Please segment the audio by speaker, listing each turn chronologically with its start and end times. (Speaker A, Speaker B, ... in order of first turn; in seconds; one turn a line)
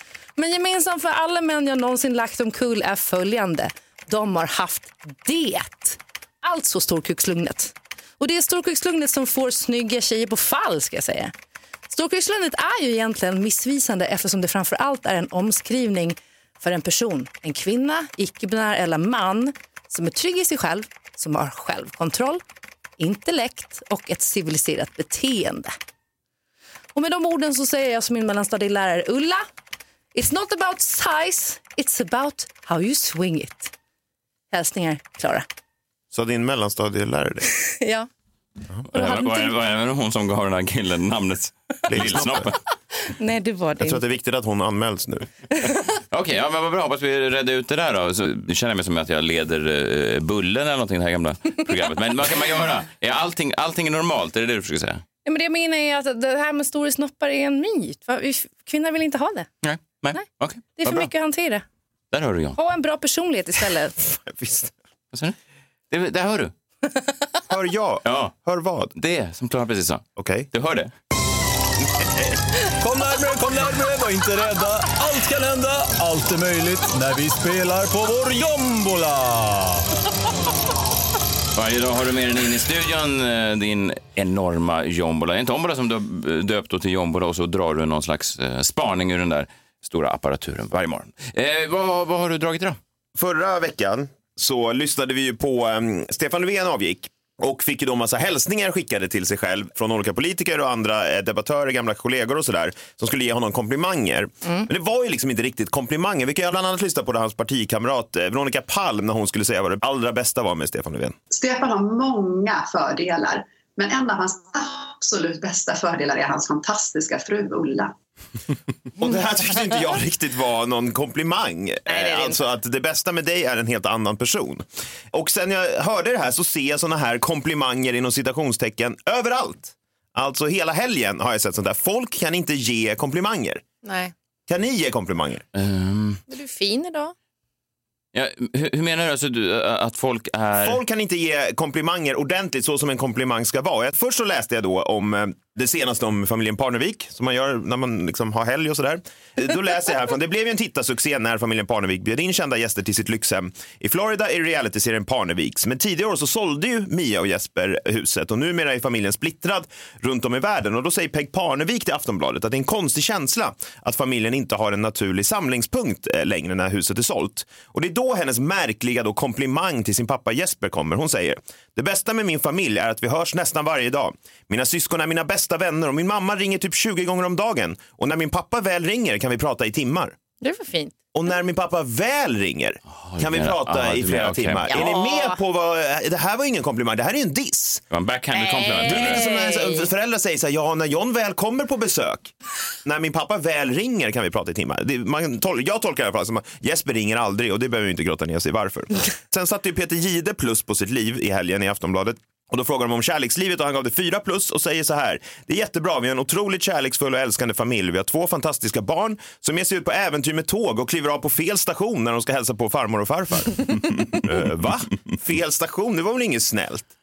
Speaker A: 0.4-11.3
Speaker A: 11.9-22.4
Speaker A: 23.0-25.7
Speaker A: 26.9-29.4
Speaker A: 30.1-33.7
Speaker A: 34.5-35.4
Speaker B: 36.1-37.5
Speaker A: 37.6-38.1
Speaker C: 38.9-42.6
Speaker A: 38.9-39.5
Speaker B: 41.9-42.5
Speaker A: 43.1-44.0
Speaker B: 43.8-45.3
Speaker C: 46.1-55.0
Speaker A: 55.2-59.5
Speaker C: 59.6-61.0
Speaker A: 60.8-61.6
Speaker C: 62.1-62.6
Speaker A: 62.5-64.0
Speaker B: 64.2-64.7
Speaker C: 65.9-66.5
Speaker B: 67.5-68.9
Speaker C: 68.0-68.3
Speaker C: 68.9-70.9
Speaker B: 70.2-70.5
Speaker D: 72.8-79.9
Speaker C: 81.5-92.8
Speaker B: 93.2-111.1
Speaker E: 111.3-117.9
Speaker B: 119.0-133.6
Speaker A: 121.9-122.4
Speaker A: 133.8-134.1
Speaker B: 134.5-135.4
Speaker C: 135.5-136.2
Speaker A: 136.3-137.1
Speaker C: 138.1-140.8
Speaker B: 140.6-180.1
Speaker A: 180.4-180.9
Speaker B: 181.1-187.8
Speaker C: 182.9-184.8
Speaker A: 184.7-185.4
Speaker C: 187.9-189.2
Speaker A: 188.3-189.9
Speaker B: 188.8-192.3
Speaker B: 192.8-216.9